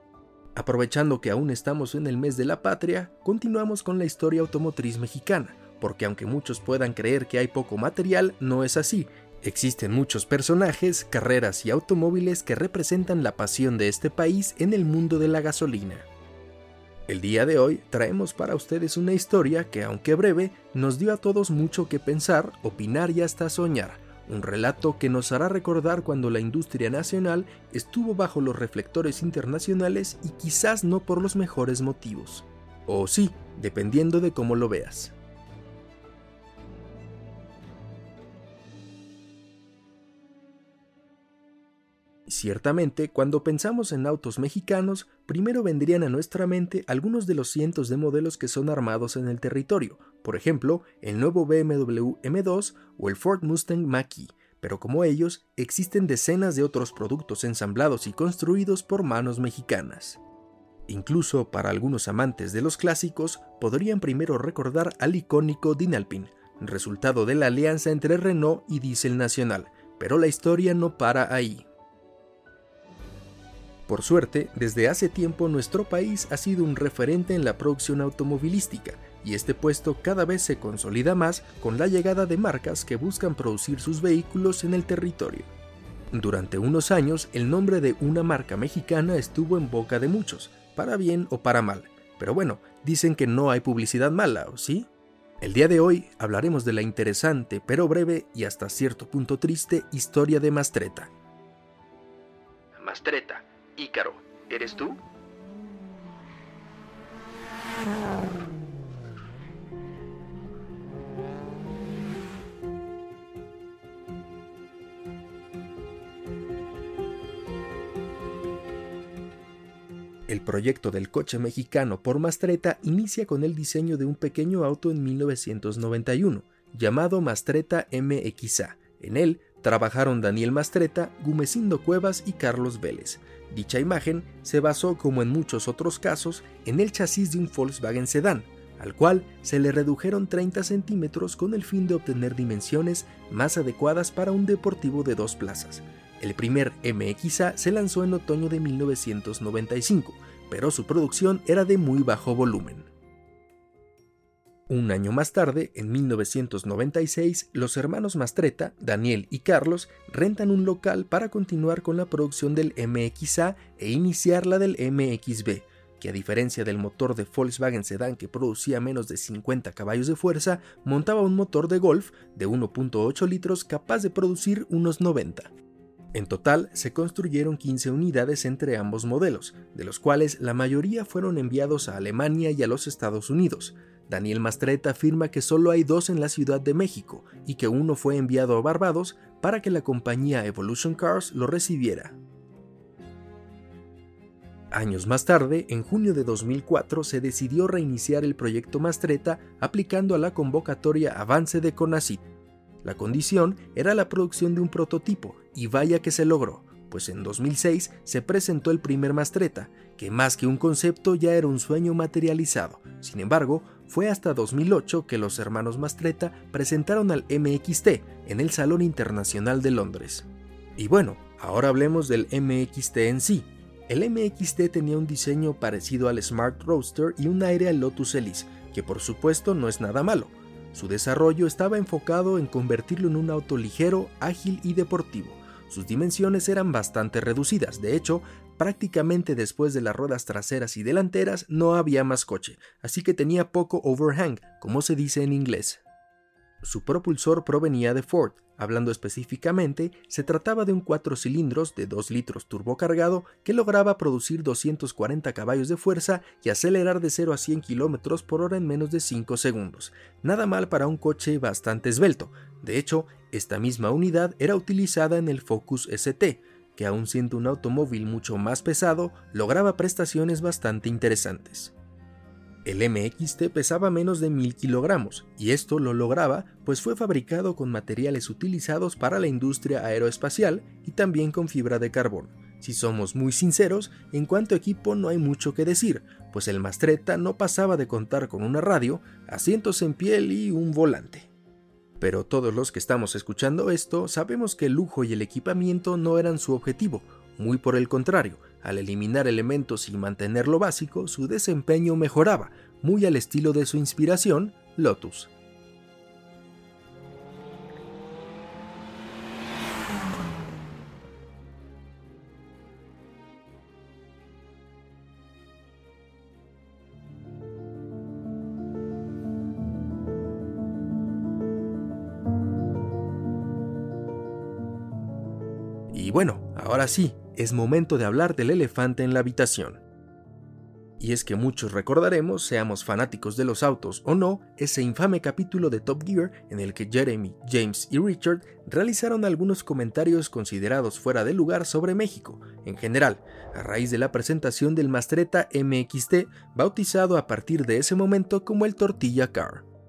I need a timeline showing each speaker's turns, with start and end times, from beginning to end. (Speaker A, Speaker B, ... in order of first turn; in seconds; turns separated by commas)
Speaker A: 0.6-16.1, Speaker A: 17.1-35.1, Speaker A: 42.3-60.2, Speaker A: 60.9-71.7, Speaker A: 73.9-85.5, Speaker A: 86.1-94.9, Speaker A: 95.4-101.1, Speaker A: 102.8-105.0, Speaker A: 120.3-152.9, Speaker A: 154.7-175.5, Speaker A: 176.1-192.2, Speaker A: 194.7-202.2, Speaker A: 202.8-245.8, Speaker A: 246.6-271.7, Speaker A: 272.6-291.3, Speaker A: 292.0-305.3, Speaker A: 325.9-329.8, Speaker A: 331.0-349.7